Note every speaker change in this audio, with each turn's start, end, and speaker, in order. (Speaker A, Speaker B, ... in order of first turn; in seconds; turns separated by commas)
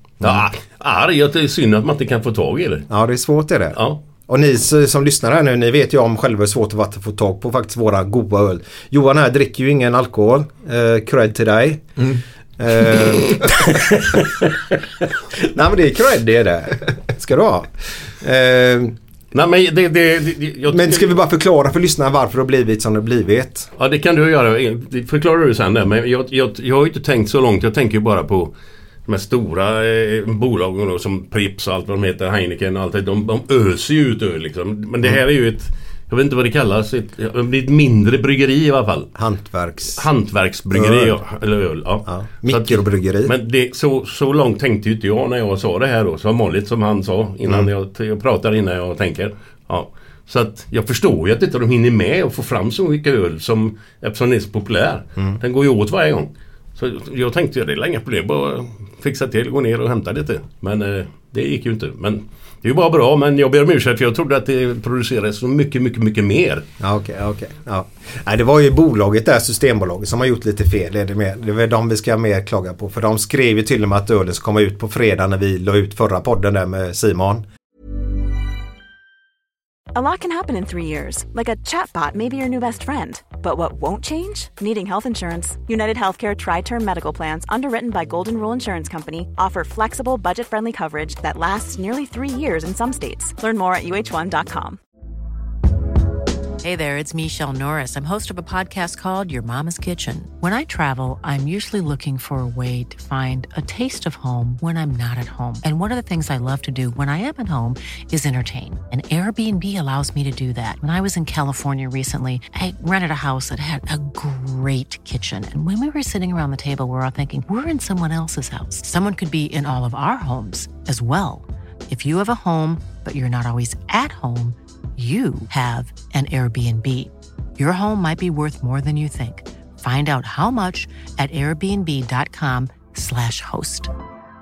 Speaker A: 0.2-2.9, Speaker B: 2.9-11.9, Speaker B: 12.6-14.5, Speaker B: 15.3-18.9, Speaker A: 19.3-21.2, Speaker B: 20.7-23.7, Speaker A: 23.8-28.5, Speaker A: 29.1-39.1, Speaker B: 39.1-40.0, Speaker A: 40.0-66.6, Speaker B: 40.7-41.1, Speaker B: 42.0-43.3, Speaker B: 66.8-77.5, Speaker C: 79.9-94.8, Speaker D: 96.6-133.9